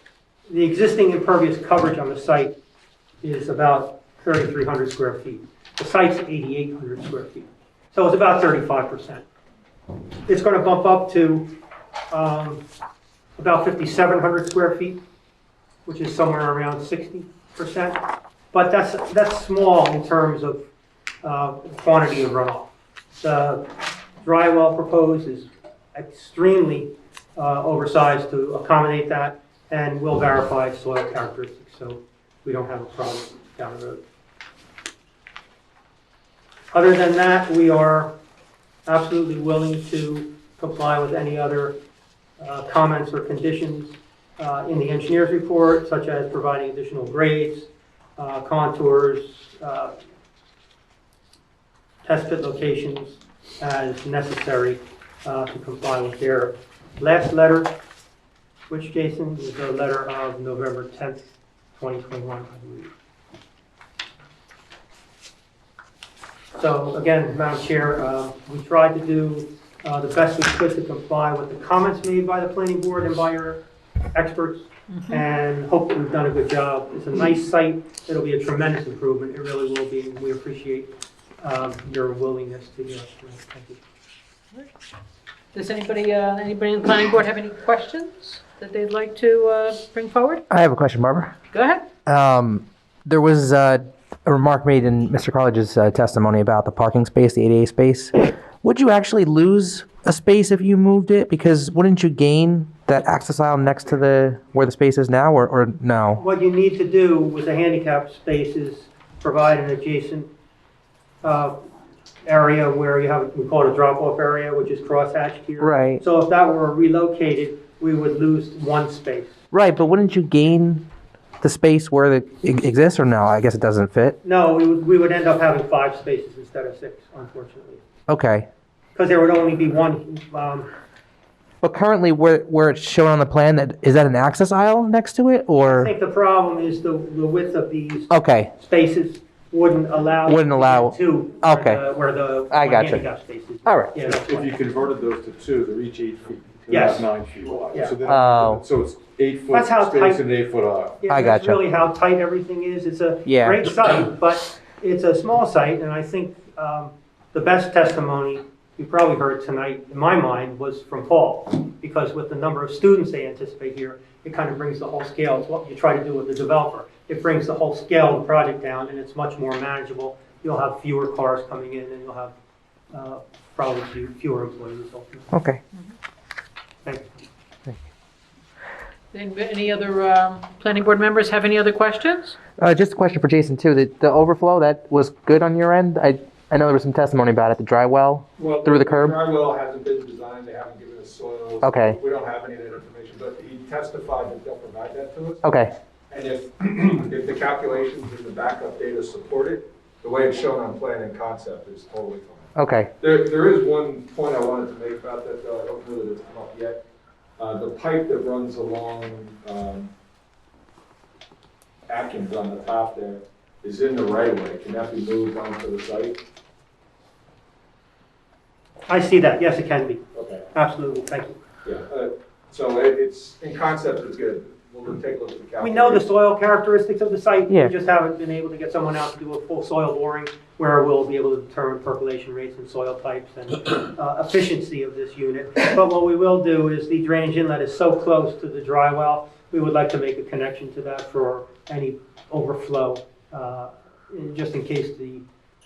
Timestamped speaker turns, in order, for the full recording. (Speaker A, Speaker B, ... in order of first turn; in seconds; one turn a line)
Speaker A: 0.5-2.5
Speaker A: 3.2-9.3
Speaker A: 10.3-11.5
Speaker A: 12.1-12.6
Speaker A: 13.4-15.0
Speaker A: 15.9-20.7
Speaker A: 21.2-34.0
Speaker A: 36.7-38.2
Speaker A: 38.9-41.8
Speaker A: 42.4-50.0
Speaker A: 52.0-57.8
Speaker A: 58.7-62.9
Speaker A: 66.5-73.6
Speaker A: 74.1-83.8
Speaker B: 74.9-75.2
Speaker B: 85.5-90.4
Speaker C: 90.5-91.3
Speaker B: 91.5-91.8
Speaker C: 92.1-106.2
Speaker A: 106.2-110.3
Speaker A: 111.2-111.6
Speaker A: 112.2-119.3
Speaker C: 115.6-116.0
Speaker C: 119.5-120.9
Speaker C: 121.4-124.2
Speaker A: 124.2-127.8
Speaker C: 128.1-128.5
Speaker A: 128.9-130.7
Speaker C: 131.6-135.9
Speaker A: 135.7-144.6
Speaker C: 138.1-138.5
Speaker C: 140.3-141.8
Speaker C: 142.5-143.0
Speaker C: 143.6-144.0
Speaker D: 144.1-151.0
Speaker A: 146.7-147.0
Speaker A: 147.7-148.0
Speaker C: 148.1-148.6
Speaker A: 149.5-150.2
Speaker A: 151.0-172.3
Speaker C: 151.1-151.6
Speaker C: 153.3-153.7
Speaker A: 172.9-175.4
Speaker C: 175.3-175.6
Speaker A: 176.8-177.2
Speaker B: 179.1-182.4
Speaker C: 182.6-189.2
Speaker E: 188.4-195.4
Speaker C: 191.6-192.0
Speaker C: 195.4-195.7
Speaker E: 196.1-206.8
Speaker C: 202.6-202.9
Speaker E: 207.4-209.9
Speaker E: 211.9-216.2
Speaker A: 218.9-221.4
Speaker E: 220.1-220.4
Speaker E: 221.6-226.0
Speaker A: 225.6-245.2